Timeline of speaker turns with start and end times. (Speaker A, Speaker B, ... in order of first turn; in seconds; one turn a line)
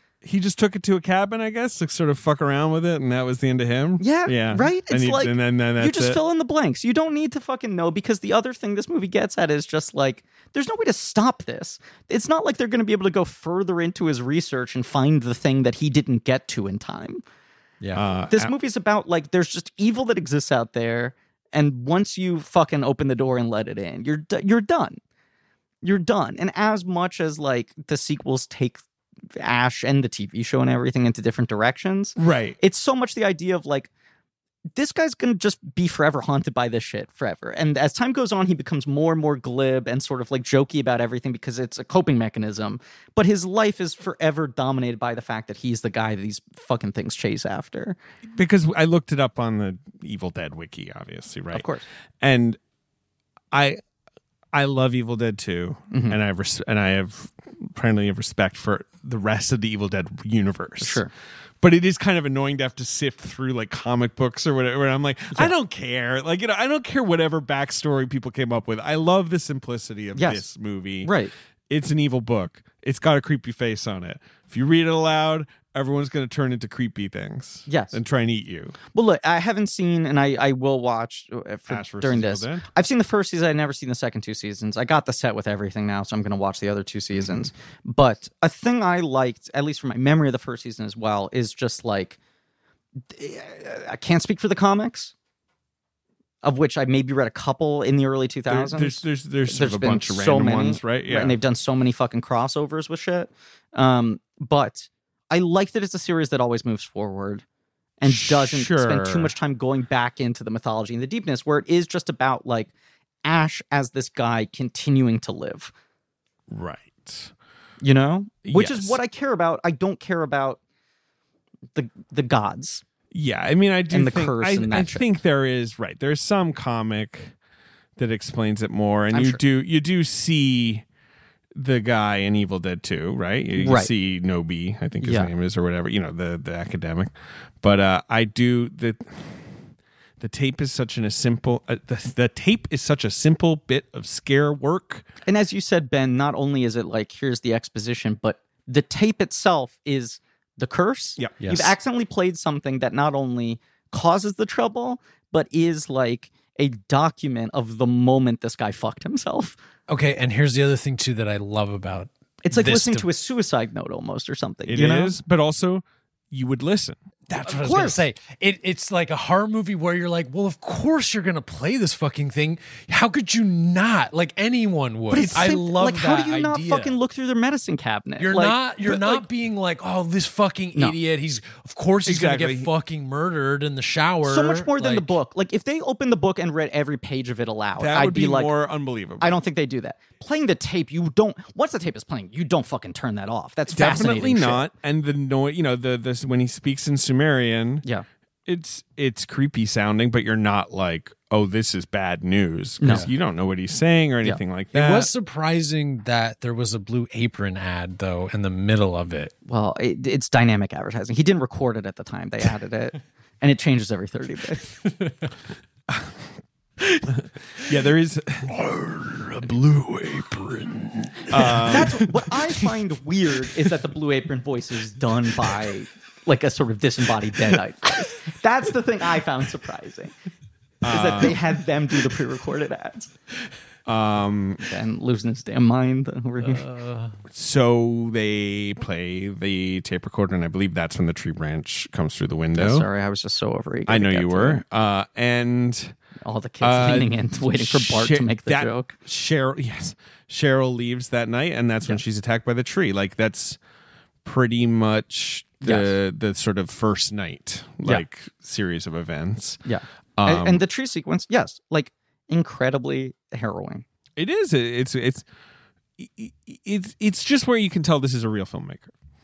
Speaker A: 0.2-6.2
Speaker B: 4.0-17.2
Speaker A: 17.9-18.5
Speaker B: 18.3-25.0
Speaker B: 25.8-28.8
Speaker B: 29.4-33.9
Speaker A: 32.2-32.6
Speaker B: 34.8-48.0
Speaker A: 48.3-51.7
Speaker B: 51.5-51.8
Speaker A: 52.2-52.6
Speaker A: 53.5-53.8
Speaker A: 54.5-61.0
Speaker B: 55.9-56.2
Speaker B: 60.8-61.1
Speaker A: 61.6-71.1
Speaker B: 70.2-70.5
Speaker B: 71.0-71.3
Speaker A: 71.7-78.8
Speaker B: 77.7-78.0
Speaker B: 78.9-92.2
Speaker A: 81.7-82.7
Speaker B: 93.1-95.1
Speaker B: 96.4-107.4
Speaker A: 98.5-101.4
Speaker B: 108.0-112.7
Speaker A: 108.0-109.3
Speaker B: 113.2-115.7
Speaker A: 116.5-117.3
Speaker B: 117.8-120.6
Speaker A: 118.5-119.0
Speaker B: 121.8-122.8
Speaker A: 123.1-127.3
Speaker B: 123.9-125.0
Speaker A: 128.0-130.8
Speaker B: 129.1-129.4
Speaker A: 131.6-137.1
Speaker B: 133.6-133.9
Speaker B: 135.0-135.3
Speaker A: 137.6-139.6
Speaker A: 140.2-145.1
Speaker B: 145.3-159.6
Speaker C: 151.4-151.8
Speaker C: 159.9-163.1
Speaker B: 162.4-165.2
Speaker A: 164.7-167.0
Speaker C: 167.3-177.0
Speaker B: 167.4-168.0
Speaker B: 175.1-179.2
Speaker C: 178.2-185.1
Speaker A: 182.1-182.7
Speaker B: 184.2-188.5
Speaker A: 187.8-189.4
Speaker B: 189.2-194.6
Speaker A: 193.7-197.8
Speaker A: 198.5-205.1
Speaker B: 202.8-203.1
Speaker C: 204.7-209.3
Speaker B: 209.5-214.8
Speaker A: 217.1-218.6
Speaker C: 218.5-221.9
Speaker A: 219.4-220.2
Speaker A: 221.3-222.0
Speaker B: 221.6-230.1
Speaker A: 230.8-231.4
Speaker B: 230.9-233.1
Speaker A: 233.9-234.7
Speaker B: 234.6-236.7
Speaker C: 236.4-237.2
Speaker A: 237.3-242.9
Speaker B: 242.6-244.6
Speaker A: 243.9-246.0
Speaker B: 246.2-248.9
Speaker A: 246.6-253.6
Speaker A: 254.2-259.6
Speaker B: 255.6-255.9
Speaker B: 259.6-263.9
Speaker A: 260.2-260.6
Speaker A: 264.2-265.2
Speaker A: 266.0-268.9